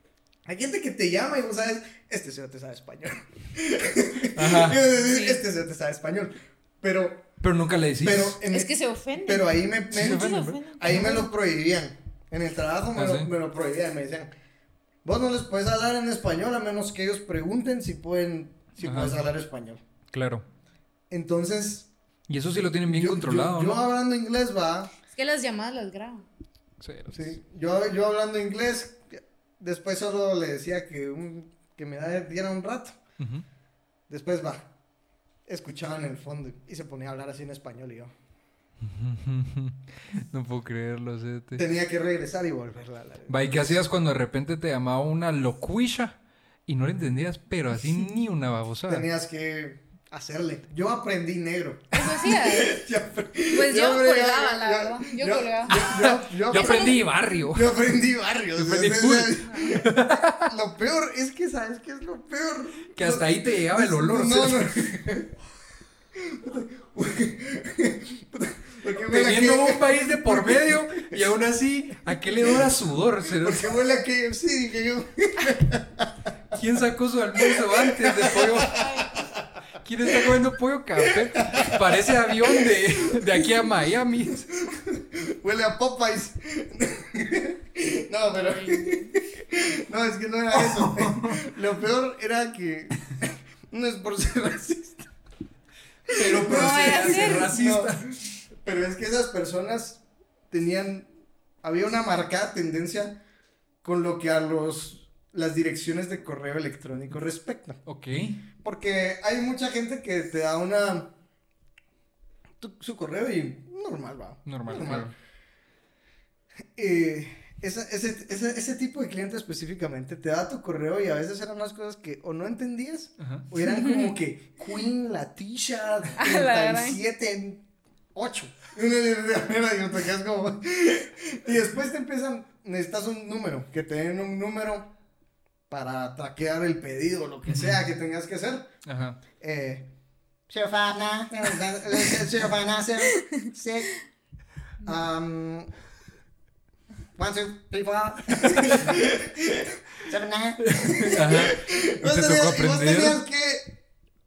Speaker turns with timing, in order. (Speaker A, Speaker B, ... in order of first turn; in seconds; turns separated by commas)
Speaker A: 0.5-7.3, Speaker B: 4.3-4.8, Speaker C: 5.0-5.4, Speaker B: 7.4-8.4, Speaker A: 8.0-14.3, Speaker C: 8.5-11.2, Speaker B: 9.9-11.1, Speaker B: 12.9-13.3, Speaker A: 15.0-19.8, Speaker B: 18.8-19.2, Speaker B: 20.1-20.4, Speaker A: 21.1-21.9, Speaker B: 22.3-23.9, Speaker A: 22.9-24.9, Speaker C: 25.1-26.3, Speaker B: 26.8-27.4, Speaker A: 27.1-33.0, Speaker B: 33.2-33.5, Speaker A: 34.1-34.7, Speaker A: 35.5-38.1, Speaker B: 38.8-41.6, Speaker A: 41.6-43.7, Speaker B: 43.3-49.1, Speaker A: 48.9-65.3, Speaker C: 51.9-52.8, Speaker C: 53.5-55.8, Speaker B: 55.7-57.8, Speaker C: 56.5-57.0, Speaker B: 58.5-60.5, Speaker B: 63.0-64.8, Speaker A: 66.1-71.3, Speaker B: 69.1-73.7, Speaker A: 72.3-72.7, Speaker A: 73.3-76.2, Speaker B: 76.5-78.8, Speaker A: 77.4-79.5, Speaker C: 78.7-79.2, Speaker B: 79.8-84.5, Speaker A: 80.0-80.3, Speaker A: 81.0-83.4, Speaker A: 84.6-95.1, Speaker C: 88.5-89.2, Speaker B: 90.6-91.5, Speaker B: 96.1-98.2, Speaker A: 96.1-101.1, Speaker C: 96.4-97.5, Speaker A: 101.6-103.2, Speaker A: 103.8-107.8, Speaker B: 107.9-108.4, Speaker A: 108.6-111.1, Speaker A: 112.6-115.1, Speaker B: 114.5-115.1, Speaker A: 116.8-134.9, Speaker B: 123.2-123.5, Speaker C: 123.7-124.1, Speaker C: 126.2-127.0, Speaker A: 135.7-138.7, Speaker B: 137.5-137.8, Speaker B: 138.8-139.2, Speaker A: 139.4-139.9, Speaker A: 140.5-143.9, Speaker C: 143.1-143.3, Speaker A: 144.8-145.7, Speaker A: 147.2-153.8, Speaker B: 150.6-153.2